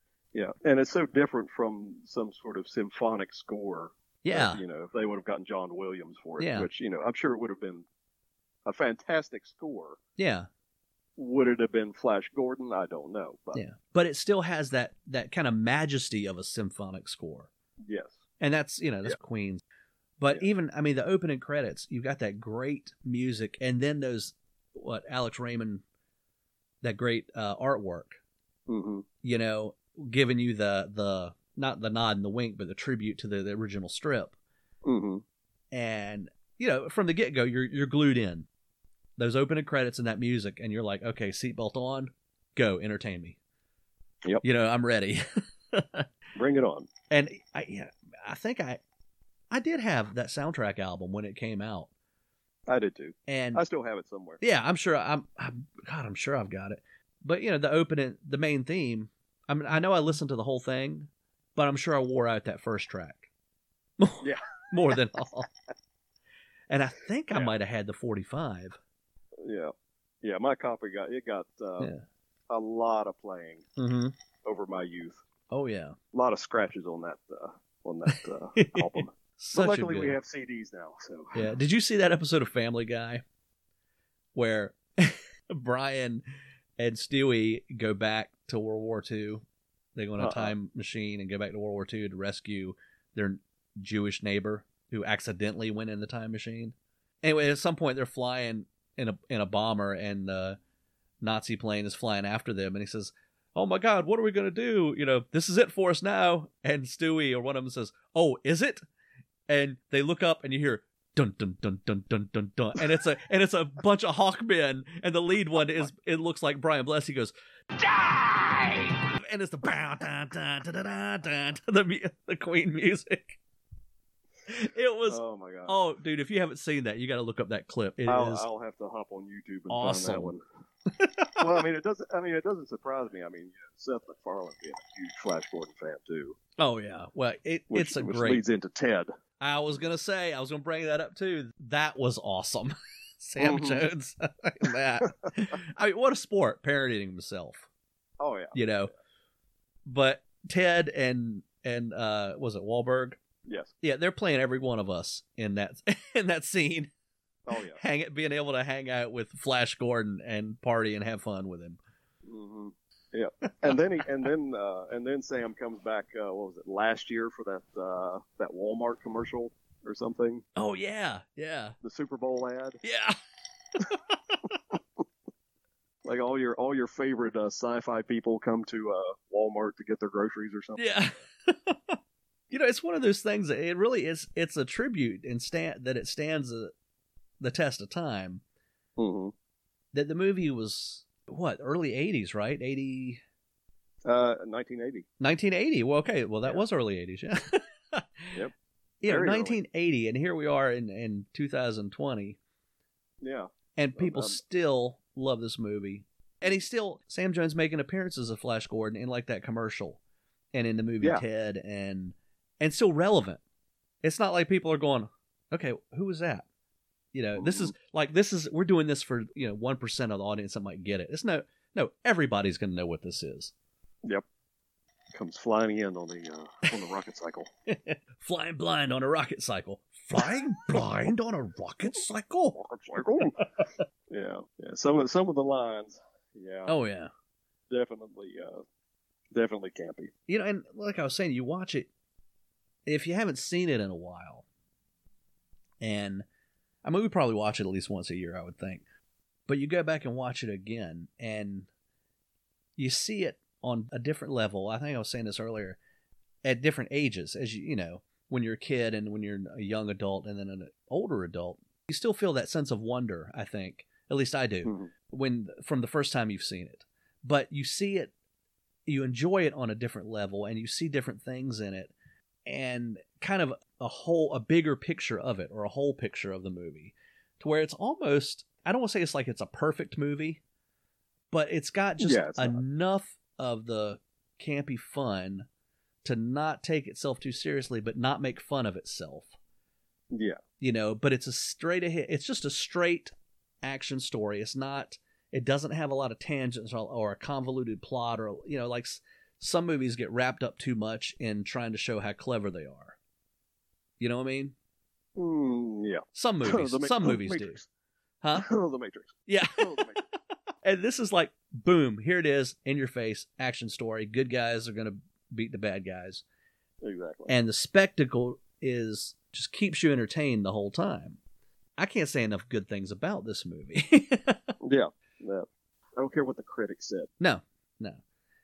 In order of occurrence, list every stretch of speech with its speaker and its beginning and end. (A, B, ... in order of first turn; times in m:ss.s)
0:00.3-0:07.8 A
0:04.2-0:04.6 B
0:06.4-0:06.7 B
0:08.6-0:10.0 A
0:10.2-0:10.5 B
0:11.2-0:13.6 A
0:13.5-0:17.5 B
0:17.8-0:18.2 A
0:18.4-0:19.6 B
0:20.2-0:25.8 B
0:26.8-0:28.2 B
0:28.7-0:29.0 A
0:29.2-0:34.3 B
0:34.8-0:35.2 A
0:35.7-0:38.5 B
0:39.2-0:43.4 B
0:44.4-0:46.1 B
0:46.3-0:46.9 A
0:47.1-0:48.8 B
0:49.5-0:51.9 B
0:52.7-0:54.4 A
0:53.3-0:53.6 B
0:54.4-1:03.3 B
1:04.0-1:05.5 B
1:06.7-1:08.8 B
1:09.4-1:11.9 A
1:12.5-1:13.7 A
1:13.8-1:14.1 B
1:14.4-1:15.2 A
1:15.5-1:16.0 B
1:16.1-1:21.4 A
1:18.6-1:20.2 B
1:21.3-1:23.2 B
1:24.3-1:26.2 B
1:26.8-1:40.6 B
1:30.2-1:30.5 A
1:41.2-1:48.8 B
1:49.5-2:03.4 B
2:04.5-2:08.4 B
2:05.1-2:05.8 A
2:08.0-2:10.4 A
2:09.7-2:10.3 B
2:10.9-2:11.4 B
2:11.4-2:16.4 A
2:16.6-2:18.4 B
2:17.7-2:19.1 A
2:19.4-2:27.7 B
2:23.4-2:23.8 A
2:28.2-2:28.6 A
2:28.5-2:28.9 B
2:29.8-2:33.2 B
2:33.4-2:33.7 A
2:33.8-2:36.9 B
2:37.5-2:37.8 A
2:37.5-2:41.8 B
2:42.2-2:50.4 A
2:50.5-2:51.8 B
2:51.8-2:52.8 A
2:52.8-2:53.2 B
2:56.0-3:01.0 A
3:00.8-3:02.0 B
3:02.5-3:06.7 B
3:07.4-3:08.4 B
3:09.0-3:09.3 A
3:09.9-3:13.2 B
3:14.0-3:15.0 A
3:15.2-3:18.4 B
3:19.0-3:22.4 B
3:19.1-3:19.6 A
3:23.2-3:24.4 A
3:23.8-3:30.0 B
3:30.5-3:33.4 B
3:34.0-3:36.4 B
3:37.1-3:43.5 B
3:37.4-3:37.7 A
3:45.1-3:47.5 A
3:47.7-3:52.6 B
3:52.6-3:53.4 A
3:54.1-3:56.7 A
3:56.7-3:57.1 B
3:57.7-3:58.6 A
3:59.3-4:00.1 A
4:00.3-4:01.9 B
4:02.8-4:04.4 B
4:05.8-4:06.2 B
4:06.8-4:08.8 B
4:09.5-4:11.7 B
4:12.8-4:15.8 B
4:16.4-4:28.1 B
4:24.6-4:24.9 A
4:28.8-4:31.9 B
4:32.4-4:40.4 B
4:41.3-4:45.5 B
4:42.0-4:42.6 A
4:46.0-4:49.4 B
4:50.1-4:50.4 A
4:50.6-5:03.0 B
5:04.0-5:04.5 B
5:05.2-5:07.7 A
5:06.1-5:07.6 B
5:08.2-5:08.5 B
5:08.3-5:10.0 A
5:09.3-5:10.0 B
5:10.6-5:16.2 B
5:16.8-5:17.3 A
5:17.3-5:21.2 B
5:21.8-5:24.5 B
5:24.6-5:27.1 A
5:27.2-5:28.0 B